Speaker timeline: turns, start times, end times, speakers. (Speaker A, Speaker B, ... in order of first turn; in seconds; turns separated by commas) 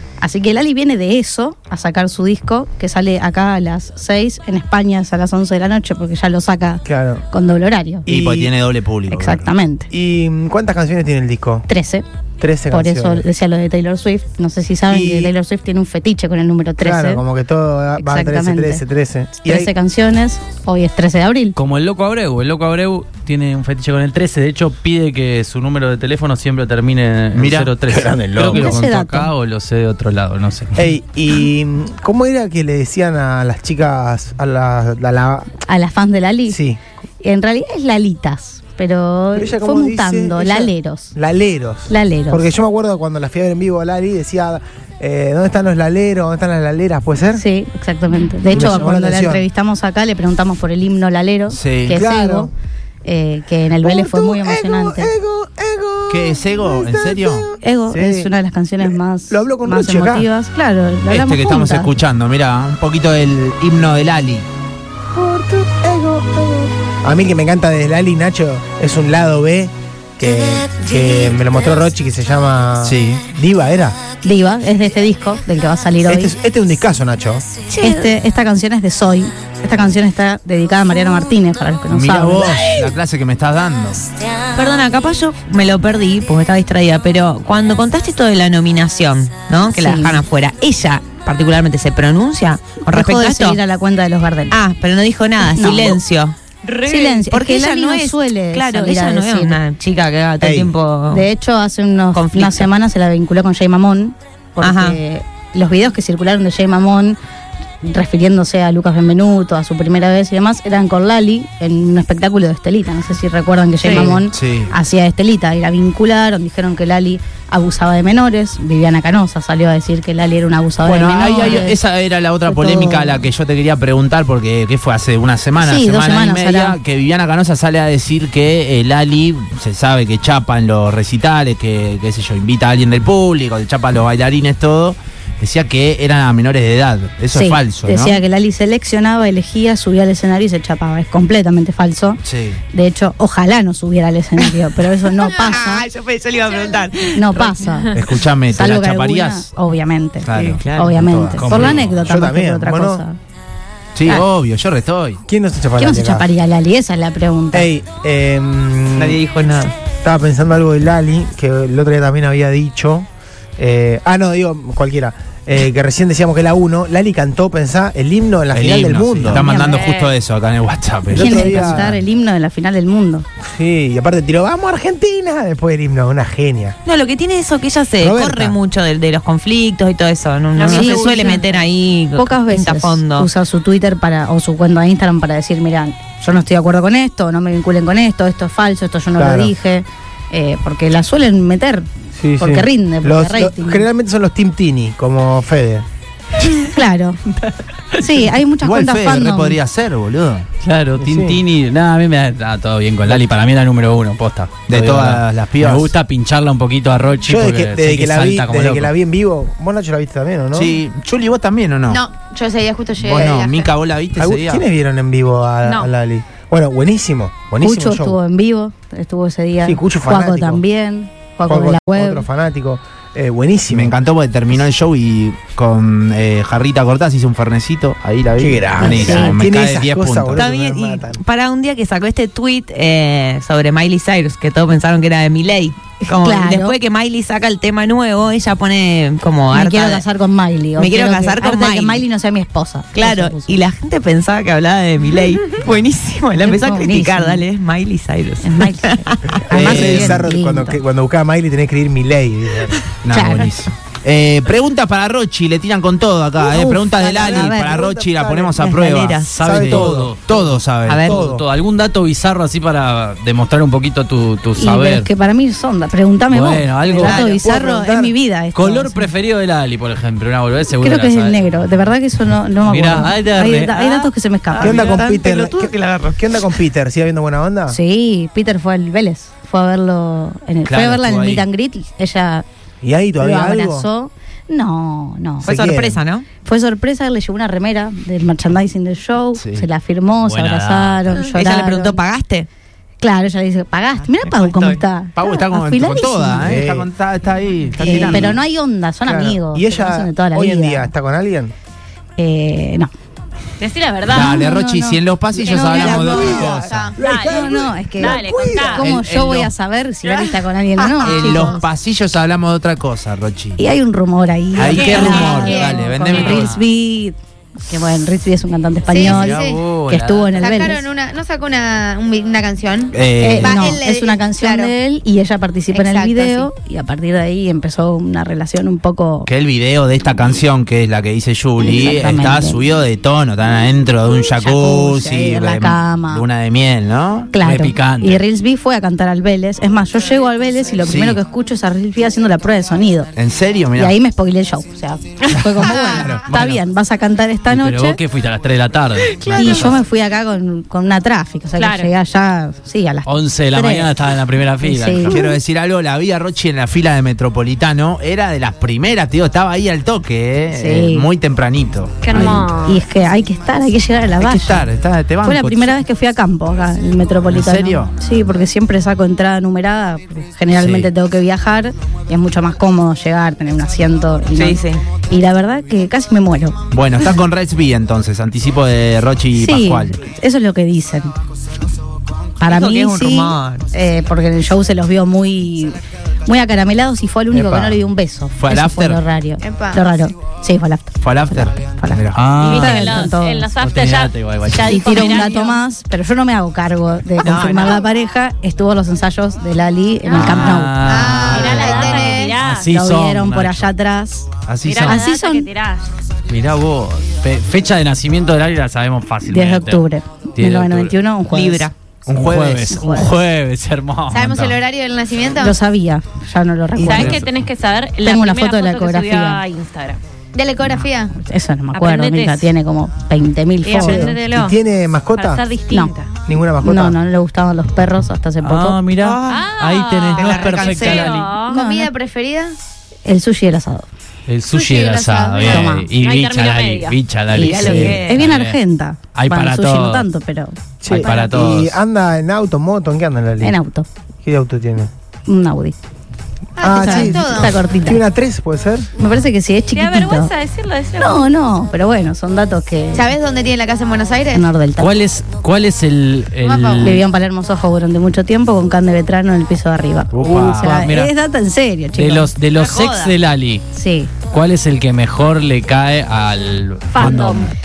Speaker A: 0.2-8.0, Speaker B: 6.8-7.2, Speaker B: 8.1-8.5, Speaker C: 8.1-9.5, Speaker A: 9.1-9.9, Speaker B: 9.9-11.7, Speaker A: 11.7-12.0, Speaker B: 12.4-13.2, Speaker A: 12.7-17.2, Speaker B: 14.9-15.3, Speaker B: 16.8-19.7, Speaker A: 18.0-18.8, Speaker A: 19.4-21.6, Speaker D: 21.6-30.9, Speaker C: 27.3-27.8, Speaker B: 27.9-28.8, Speaker A: 28.5-29.3, Speaker B: 30.8-35.5, Speaker A: 35.6-36.6, Speaker B: 36.5-36.8, Speaker A: 37.2-41.1, Speaker B: 39.3-47.4, Speaker A: 41.9-42.5, Speaker A: 47.3-52.5, Speaker B: 48.5-49.4, Speaker C: 51.5-52.0, Speaker B: 51.9-52.5, Speaker A: 53.0-55.1, Speaker B: 53.8-58.3, Speaker C: 56.1-57.5, Speaker A: 57.6-61.9, Speaker B: 58.8-60.3, Speaker C: 61.1-64.5, Speaker B: 65.0-74.0, Speaker C: 72.8-73.2, Speaker A: 74.2-76.3, Speaker B: 76.0-77.4, Speaker E: 77.7-78.1, Speaker A: 77.8-82.7, Speaker C: 81.9-84.1, Speaker E: 84.5-93.6, Speaker A: 89.7-90.2, Speaker A: 92.8-94.6, Speaker E: 94.5-101.3, Speaker A: 95.5-96.0, Speaker A: 96.8-99.6, Speaker B: 100.4-100.7, Speaker A: 101.1-107.2, Speaker E: 102.1-102.7, Speaker E: 104.6-105.0, Speaker A: 107.8-121.8, Speaker C: 113.9-114.7, Speaker C: 120.8-138.2, Speaker A: 122.4-123.2, Speaker A: 125.6-126.8, Speaker A: 137.3-142.2, Speaker C: 142.2-142.6, Speaker A: 142.7-145.9, Speaker E: 144.4-147.8, Speaker A: 147.1-147.9, Speaker C: 147.9-149.5, Speaker A: 148.5-153.2, Speaker C: 150.2-152.0, Speaker E: 150.3-151.0, Speaker D: 151.4-151.8, Speaker B: 152.0-153.0, Speaker C: 153.9-155.2, Speaker B: 155.2-156.3, Speaker A: 155.8-157.7, Speaker B: 157.5-159.2, Speaker E: 158.9-159.7, Speaker B: 160.0-169.5, Speaker C: 168.5-172.0, Speaker A: 169.3-169.8, Speaker F: 169.7-170.2, Speaker B: 171.1-171.9, Speaker A: 171.1-173.2, Speaker B: 173.4-176.8, Speaker E: 176.8-183.3, Speaker B: 178.0-178.6, Speaker A: 180.6-191.9, Speaker B: 181.0-181.4, Speaker B: 189.2-189.5, Speaker B: 192.2-195.8, Speaker A: 192.4-193.8, Speaker A: 196.6-197.2, Speaker A: 198.0-199.6, Speaker C: 198.6-200.5, Speaker D: 200.6-208.9, Speaker B: 201.0-201.4, Speaker C: 204.7-205.9, Speaker B: 207.2-210.7, Speaker C: 210.5-212.0, Speaker G: 211.9-213.7, Speaker C: 213.0-214.6, Speaker B: 214.2-218.2, Speaker F: 215.6-215.9, Speaker A: 217.6-222.3, Speaker B: 219.6-220.6, Speaker B: 221.5-224.0, Speaker C: 223.7-230.4, Speaker B: 228.4-231.2, Speaker A: 228.8-229.4, Speaker E: 230.3-240.0, Speaker A: 236.0-236.8, Speaker A: 239.5-243.6, Speaker E: 240.8-242.0, Speaker E: 242.9-249.4, Speaker A: 246.3-247.4, Speaker A: 248.4-250.8, Speaker B: 249.4-252.8, Speaker C: 249.5-250.2, Speaker C: 253.0-261.1, Speaker A: 253.1-253.5, Speaker A: 256.4-257.1, Speaker B: 257.0-258.7, Speaker E: 257.1-257.6, Speaker E: 258.5-259.4, Speaker D: 259.2-260.5, Speaker B: 259.4-260.2, Speaker E: 260.9-261.2, Speaker B: 261.0-261.4, Speaker D: 261.1-265.1, Speaker A: 264.6-269.1, Speaker D: 266.3-267.2, Speaker B: 266.8-268.1, Speaker D: 268.5-271.6, Speaker A: 270.8-274.9, Speaker D: 272.6-273.9, Speaker E: 273.8-276.6, Speaker B: 274.6-277.8, Speaker A: 277.7-282.4, Speaker C: 280.6-281.5, Speaker B: 282.8-283.9, Speaker A: 283.2-285.5, Speaker E: 285.4-286.3, Speaker B: 285.4-286.0, Speaker A: 286.4-292.0, Speaker C: 289.4-289.7, Speaker D: 290.2-291.2, Speaker E: 291.1-292.5, Speaker A: 293.0-296.6, Speaker E: 294.2-294.8, Speaker C: 295.1-298.4, Speaker B: 296.4-296.9, Speaker E: 297.7-298.3, Speaker A: 297.8-300.9, Speaker B: 297.8-298.3, Speaker B: 299.0-301.5, Speaker A: 302.2-302.9, Speaker F: 303.6-304.5, Speaker C: 304.1-306.9, Speaker A: 304.1-305.0, Speaker G: 305.4-307.0, Speaker F: 305.4-308.9, Speaker B: 305.8-308.8, Speaker A: 307.1-311.6, Speaker C: 308.8-309.5, Speaker G: 310.0-311.6, Speaker C: 311.0-313.6, Speaker A: 313.6-317.1, Speaker C: 314.5-316.6, Speaker G: 314.7-315.9, Speaker F: 314.7-315.6, Speaker D: 316.1-316.6, Speaker A: 317.7-320.8, Speaker G: 318.9-319.6, Speaker D: 319.0-320.6, Speaker G: 320.4-324.7, Speaker C: 322.9-323.7, Speaker A: 323.2-329.3, Speaker G: 325.7-326.5, Speaker C: 329.2-337.3, Speaker A: 331.6-332.6, Speaker A: 334.4-336.2, Speaker A: 337.3-343.1, Speaker D: 337.4-338.2, Speaker C: 340.8-341.2, Speaker C: 343.1-343.9, Speaker A: 343.7-348.0, Speaker C: 345.4-346.6, Speaker D: 347.5-349.8, Speaker A: 349.2-353.9, Speaker F: 351.6-351.9, Speaker D: 353.1-355.2, Speaker A: 354.6-355.3, Speaker C: 355.1-362.4, Speaker A: 360.5-361.1, Speaker F: 362.0-362.8, Speaker A: 362.1-364.7, Speaker C: 364.2-365.8, Speaker A: 365.2-376.6, Speaker C: 367.3-367.9, Speaker C: 370.5-370.9, Speaker E: 374.3-374.8, Speaker C: 376.7-379.9, Speaker A: 379.3-381.1, Speaker A: 382.4-393.5, Speaker E: 382.4-383.7, Speaker C: 387.3-387.8, Speaker C: 388.4-389.0, Speaker G: 389.4-389.9, Speaker C: 391.0-392.3, Speaker D: 392.1-395.3, Speaker F: 392.4-395.6, Speaker A: 394.6-400.8, Speaker E: 397.2-397.9, Speaker F: 400.1-402.7, Speaker D: 400.1-403.7, Speaker G: 400.8-402.4, Speaker A: 402.7-404.3, Speaker C: 404.5-404.9, Speaker F: 404.6-405.9, Speaker A: 404.9-405.5, Speaker D: 406.3-409.8, Speaker A: 409.2-411.7, Speaker D: 410.4-410.9, Speaker E: 411.2-411.7, Speaker C: 412.1-412.8, Speaker D: 412.1-414.6, Speaker A: 412.7-413.1, Speaker G: 414.1-415.6, Speaker A: 415.4-417.2, Speaker F: 416.8-420.0, Speaker D: 416.8-417.3, Speaker A: 418.0-419.4, Speaker G: 420.3-421.1, Speaker A: 420.7-424.2, Speaker F: 421.7-422.5, Speaker F: 423.6-424.6, Speaker B: 423.7-425.4, Speaker F: 425.1-426.1, Speaker B: 426.3-427.0, Speaker A: 426.6-428.8, Speaker D: 428.4-431.4, Speaker E: 429.0-429.4, Speaker F: 429.3-431.6, Speaker E: 430.1-431.2, Speaker G: 430.2-432.5, Speaker A: 431.5-431.9, Speaker A: 433.1-433.9, Speaker D: 434.3-438.6, Speaker G: 434.5-435.6, Speaker A: 435.4-435.9, Speaker F: 436.0-437.0, Speaker A: 437.3-441.4, Speaker E: 437.3-438.3, Speaker D: 439.1-440.1, Speaker B: 440.8-443.6, Speaker D: 440.9-441.8, Speaker A: 443.4-443.9, Speaker B: 444.2-444.9, Speaker A: 445.3-445.8, Speaker G: 446.6-447.6, Speaker B: 446.6-448.9, Speaker A: 446.6-448.0, Speaker A: 448.9-450.3, Speaker F: 449.7-451.3, Speaker A: 451.0-453.1, Speaker G: 452.9-454.4, Speaker A: 454.3-454.9, Speaker D: 454.8-457.0, Speaker G: 456.4-457.0, Speaker A: 456.8-462.3, Speaker C: 460.1-460.8, Speaker D: 460.1-461.1, Speaker D: 461.9-463.6, Speaker E: 462.5-463.1, Speaker A: 463.7-464.1, Speaker D: 464.3-467.5, Speaker F: 466.9-467.5